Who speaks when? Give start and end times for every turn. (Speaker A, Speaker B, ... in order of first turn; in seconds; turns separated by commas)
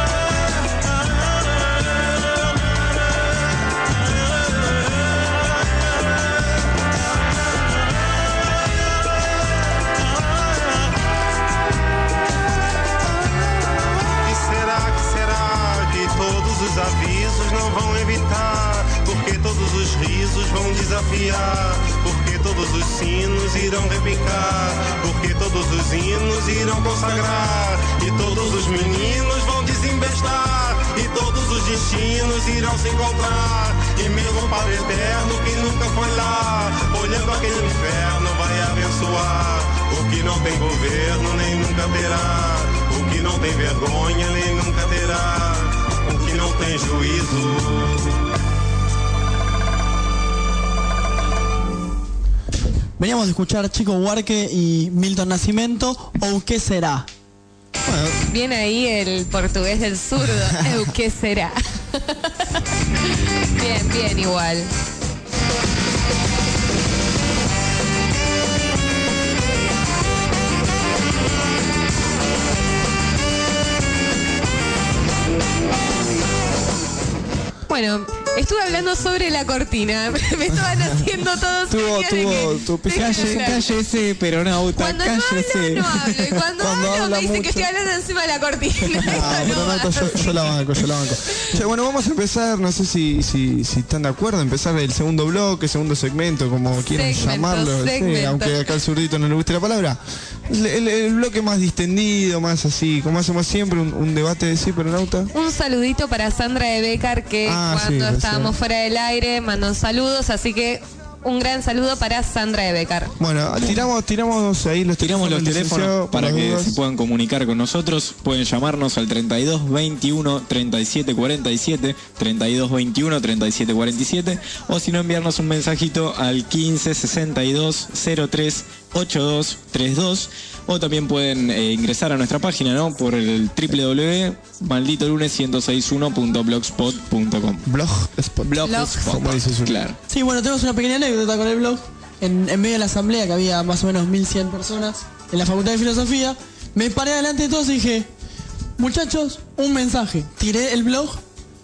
Speaker A: 14.2-48.0, Speaker B: 53.0-57.1, Speaker C: 57.9-58.2, Speaker D: 58.3-62.6, Speaker D: 63.2-64.7, Speaker D: 77.7-83.7, Speaker C: 81.7-83.6, Speaker E: 82.9-86.4, Speaker D: 84.8-90.6, Speaker C: 86.6-87.7, Speaker E: 89.0-89.5, Speaker C: 89.0-105.3, Speaker D: 96.9-98.7, Speaker D: 105.3-113.1, Speaker C: 107.5-108.5, Speaker C: 113.2-116.8, Speaker E: 113.6-113.9, Speaker E: 115.0-137.7, Speaker C: 137.7-139.9, Speaker E: 138.4-140.0, Speaker D: 138.6-139.1, Speaker B: 140.1-148.1, Speaker B: 148.8-151.2